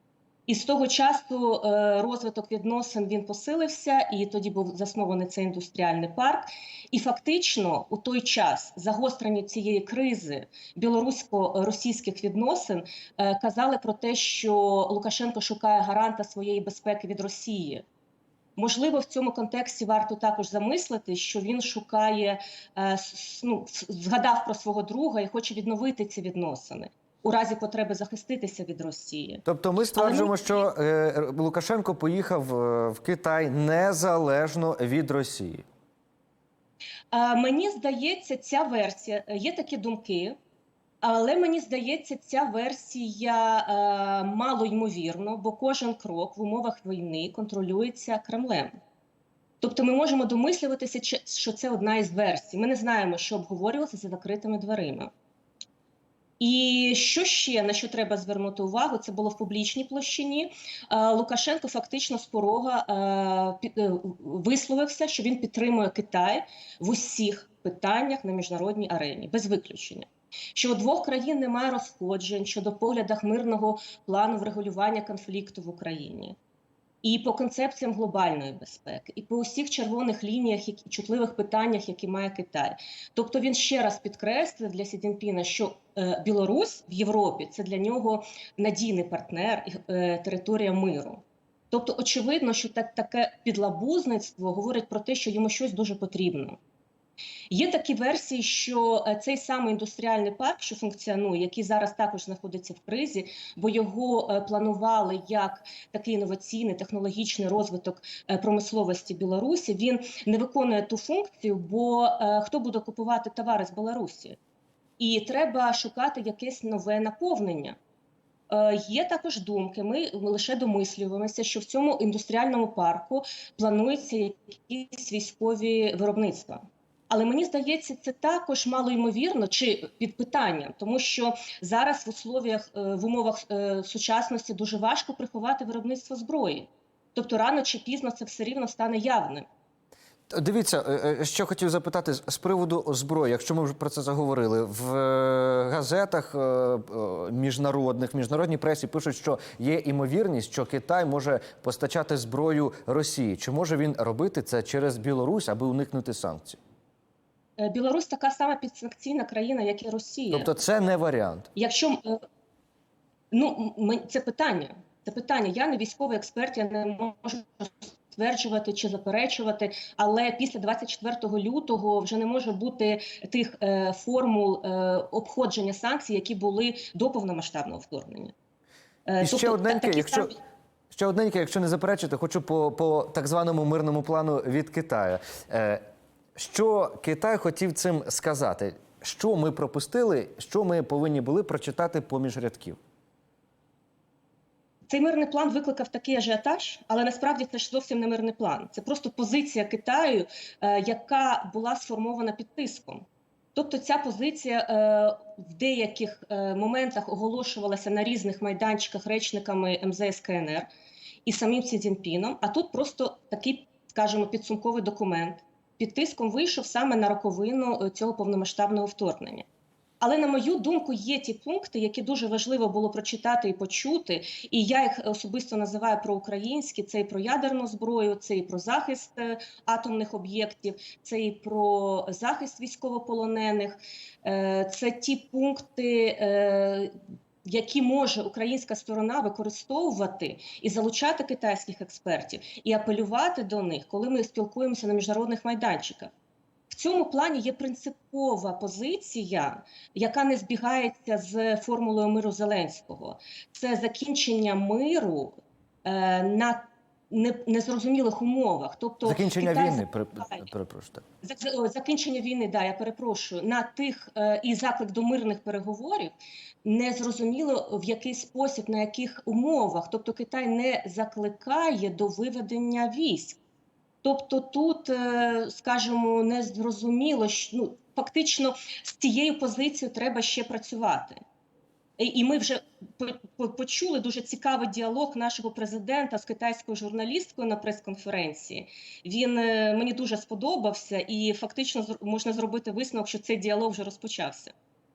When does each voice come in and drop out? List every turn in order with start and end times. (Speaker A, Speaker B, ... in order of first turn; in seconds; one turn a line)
Speaker A: 0.5-17.9
Speaker A: 18.6-29.4
Speaker B: 29.5-35.6
Speaker A: 30.0-30.4
Speaker A: 37.1-40.4
Speaker A: 41.0-48.8
Speaker A: 49.6-55.1
Speaker A: 56.4-76.4
Speaker A: 77.0-96.6
Speaker A: 97.5-114.4
Speaker A: 115.0-117.8
Speaker A: 118.5-139.5
Speaker B: 140.3-156.6
Speaker A: 157.6-160.5
Speaker B: 160.3-161.5
Speaker A: 161.6-162.2
Speaker A: 163.3-178.3
Speaker A: 179.1-180.4
Speaker B: 179.2-180.3
Speaker B: 180.9-185.8
Speaker B: 186.4-192.8
Speaker A: 194.9-210.7
Speaker A: 211.3-219.5
Speaker A: 220.0-246.1
Speaker A: 246.7-260.4
Speaker B: 259.1-261.1
Speaker A: 261.2-266.1
Speaker A: 266.6-273.4
Speaker A: 274.0-281.2
Speaker A: 282.0-294.5